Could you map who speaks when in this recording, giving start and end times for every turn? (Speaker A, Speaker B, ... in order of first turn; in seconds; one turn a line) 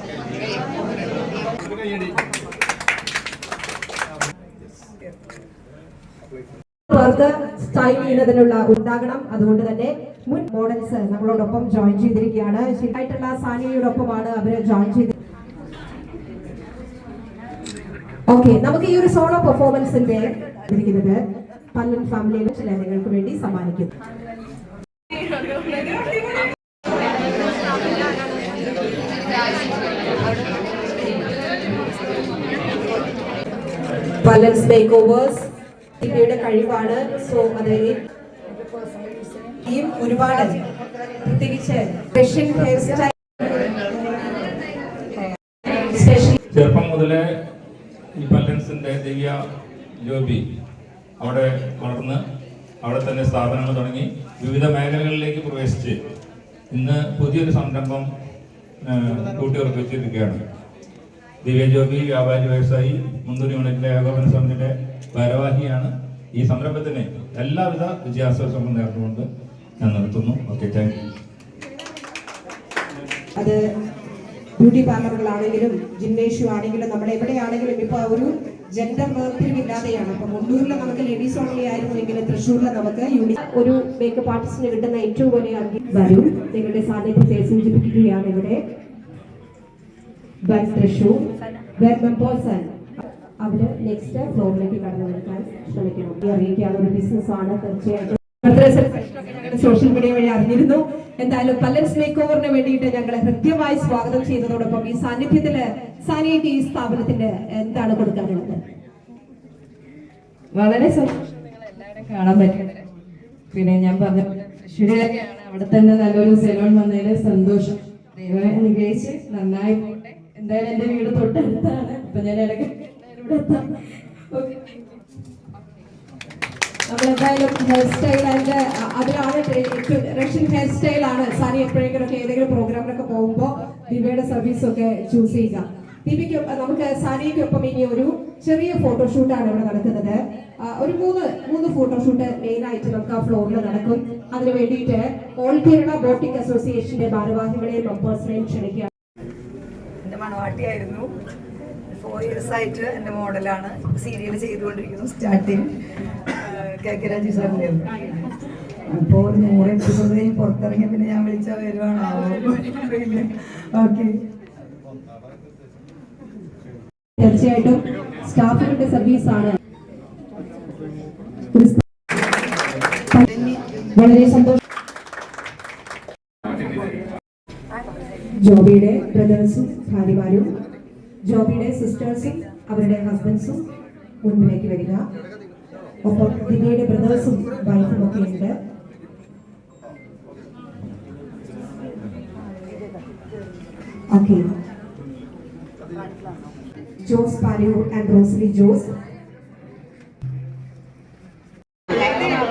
Speaker A: 6.9-15.1
Speaker A: 18.3-21.2
Speaker A: 21.7-23.9
Speaker A: 34.2-35.5
Speaker A: 36.0-38.0
Speaker B: 38.5-39.6
Speaker A: 39.7-40.6
Speaker A: 41.2-43.1
Speaker A: 45.9-46.4
Speaker C: 46.5-47.2
Speaker C: 48.2-49.4
Speaker C: 50.0-50.4
Speaker C: 51.2-52.2
Speaker C: 52.8-56.0
Speaker C: 56.7-58.1
Speaker C: 58.8-60.4
Speaker C: 61.4-69.2
Speaker C: 69.8-71.0
Speaker A: 73.4-73.6
Speaker A: 74.6-88.6
Speaker A: 90.5-91.2
Speaker A: 91.8-92.9
Speaker A: 93.4-108.6
Speaker D: 110.5-112.9
Speaker D: 113.5-124.7
Speaker A: 126.9-148.9
Speaker B: 150.0-151.1
Speaker B: 152.0-155.7
Speaker B: 156.3-158.2
Speaker B: 158.9-164.2
Speaker A: 167.2-169.6
Speaker A: 171.5-171.8
Speaker A: 173.9-174.6
Speaker A: 178.4-180.5
Speaker A: 181.2-183.6
Speaker A: 184.2-185.0
Speaker A: 186.0-188.6
Speaker A: 194.1-194.5
Speaker A: 197.0-198.9